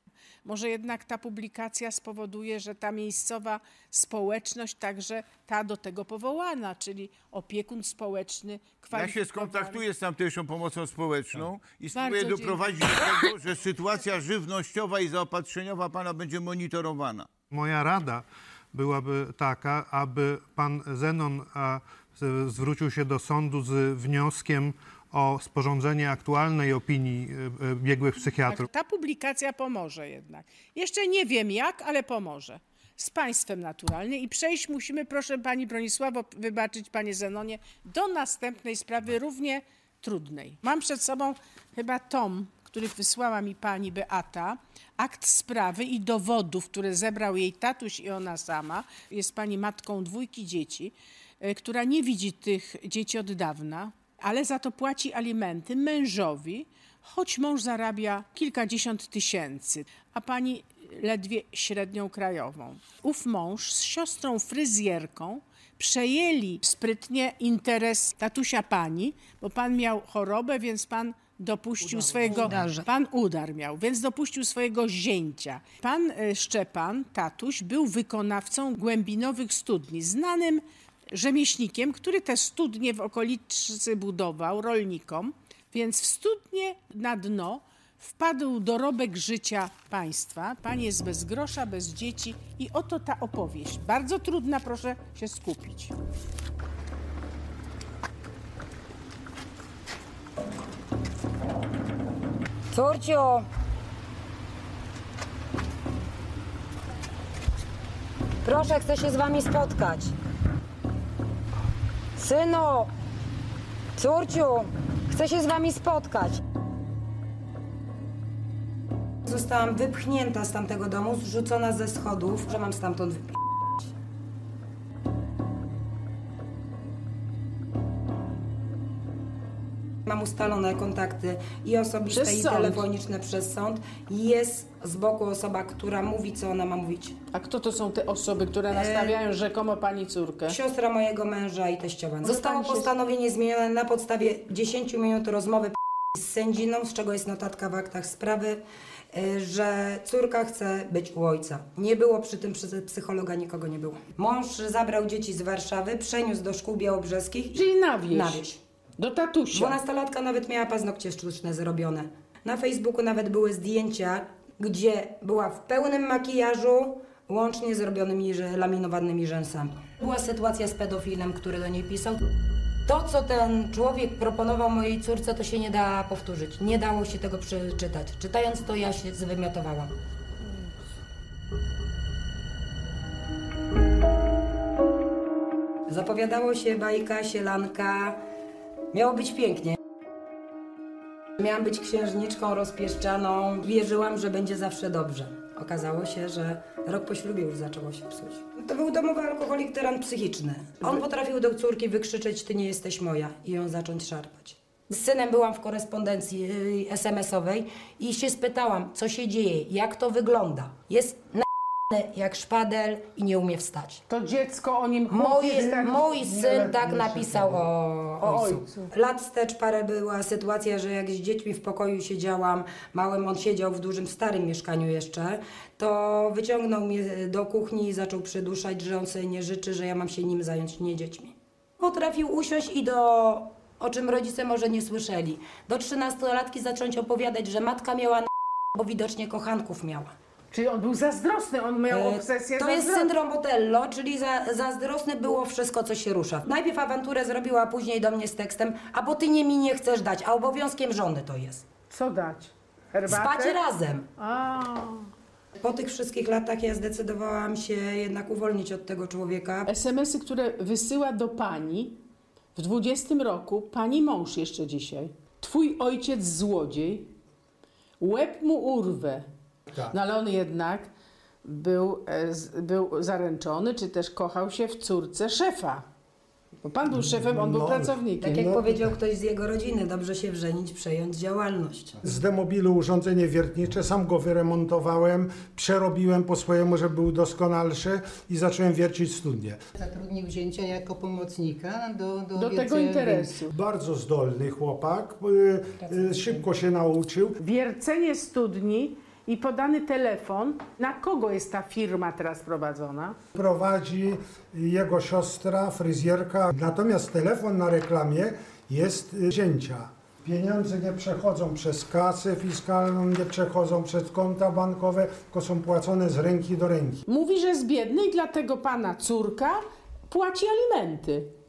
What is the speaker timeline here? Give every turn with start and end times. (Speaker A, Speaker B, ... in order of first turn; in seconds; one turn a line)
Speaker A: 0.4-9.8
Speaker B: 8.9-17.3
Speaker A: 11.9-12.6
Speaker C: 17.5-28.6
Speaker A: 28.4-80.6
Speaker D: 72.3-72.9
Speaker A: 81.1-95.9
Speaker D: 102.7-103.4
Speaker D: 108.4-110.1
Speaker D: 112.2-112.9
Speaker D: 114.0-116.4
Speaker D: 119.2-123.9
Speaker D: 130.1-137.2
Speaker A: 132.1-132.8
Speaker A: 137.3-140.6
Speaker D: 138.7-139.1
Speaker D: 140.5-157.5
Speaker A: 142.2-142.9
Speaker A: 157.5-158.4
Speaker D: 158.1-158.6
Speaker A: 159.0-159.8
Speaker D: 159.5-172.2
Speaker D: 172.9-179.9
Speaker D: 185.9-188.2
Speaker D: 188.9-189.8
Speaker D: 191.4-214.0
Speaker A: 214.1-217.4
Speaker D: 215.1-240.1
Speaker A: 218.2-218.9
Speaker A: 240.5-243.1
Speaker D: 241.9-251.6
Speaker A: 251.9-253.6
Speaker D: 253.1-254.1
Speaker A: 254.2-255.1
Speaker D: 255.6-259.7
Speaker A: 259.7-262.0
Speaker A: 262.6-267.1
Speaker A: 268.0-269.2
Speaker A: 269.9-270.9
Speaker A: 271.4-275.8
Speaker A: 276.6-278.6
Speaker E: 276.9-277.9
Speaker D: 278.2-282.0
Speaker E: 282.0-289.6
Speaker F: 289.7-293.4
Speaker A: 292.4-293.5
Speaker E: 293.5-297.4
Speaker D: 295.9-296.2
Speaker A: 297.4-303.2
Speaker E: 303.3-317.0
Speaker A: 317.1-321.3